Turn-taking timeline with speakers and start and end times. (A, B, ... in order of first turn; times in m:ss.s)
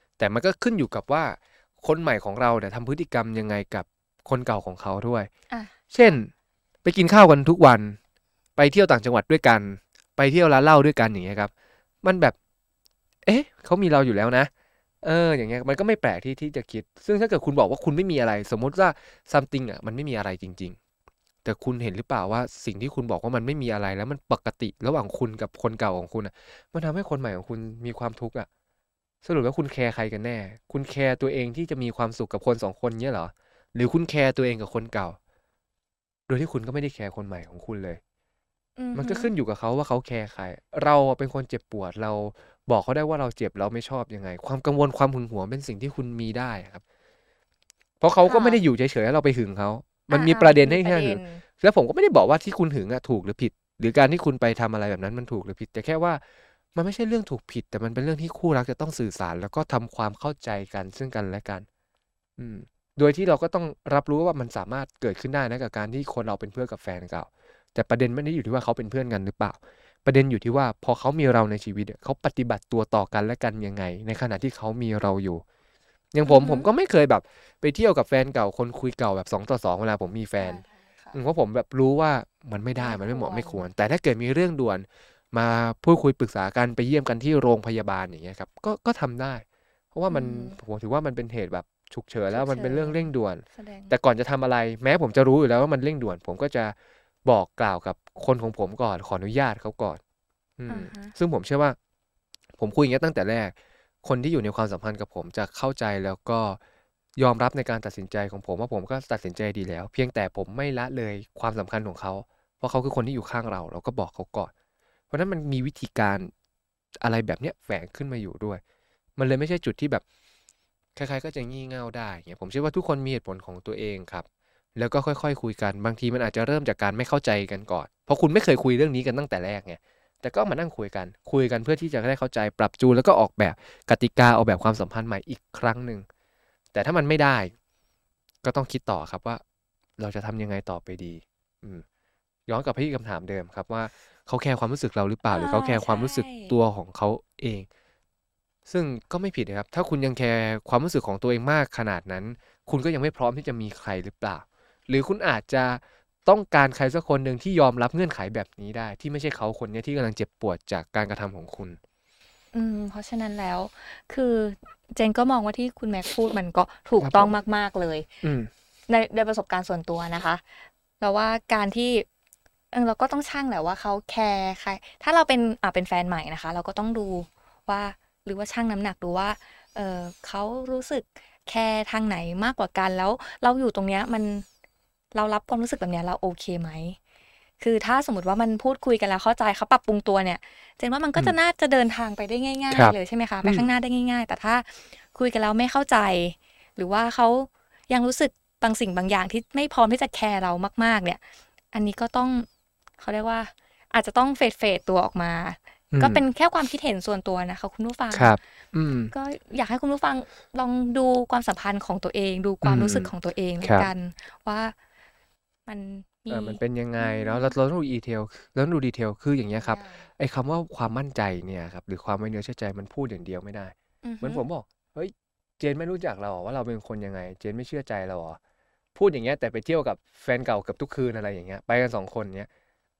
0:00.2-0:05.3 A
0:05.5-0:06.2 B
0:05.9-0:06.3 A
0:06.8-0:08.0 A
0:08.6-0:11.5 A
0:12.0-0:12.3 A
0:13.2-0:14.5 A
0:15.0-0:20.8 A
0:21.4-0:28.5 A
0:29.2-0:35.2 A
0:36.3-0:38.0 A
0:38.8-0:39.3 B
0:38.9-0:46.8 A
0:48.0-0:56.2 A
0:48.2-0:48.6 B
0:50.1-0:51.4 B
0:56.7-1:01.6 A
1:02.4-1:15.4 A
1:16.1-1:29.4 A
1:16.2-1:16.7 B
1:20.4-1:21.2 B
1:22.8-1:23.6 B
1:29.9-1:40.0 A
1:30.1-1:30.6 B
1:32.3-1:33.9 B
1:40.6-1:41.8 A
1:40.7-1:41.1 B
1:42.6-1:46.6 A
1:47.2-1:54.5 A
1:55.1-1:56.3 A
1:57.0-1:58.6 A
1:59.2-2:00.0 A
2:01.0-2:16.0 A
2:16.7-2:17.5 A
2:18.4-2:19.4 A
2:20.0-2:21.8 A
2:22.5-2:27.7 A
2:25.2-2:26.6 B
2:28.7-2:41.8 A
2:42.5-2:48.1 B
2:47.0-2:47.3 A
2:48.2-2:48.5 A
2:48.9-2:50.4 B
2:51.0-2:52.0 B
2:52.7-3:04.4 B
3:05.1-3:07.0 B
3:07.6-3:21.2 B
3:12.7-3:13.7 A
3:21.7-3:22.5 B
3:23.0-3:28.4 B
3:25.9-3:26.2 A
3:28.1-3:29.1 A
3:29.1-3:34.7 B
3:32.6-3:33.9 A
3:35.6-3:37.6 B
3:36.3-3:48.4 A
3:39.5-3:40.1 B
3:44.0-3:44.4 B
3:48.9-3:52.5 A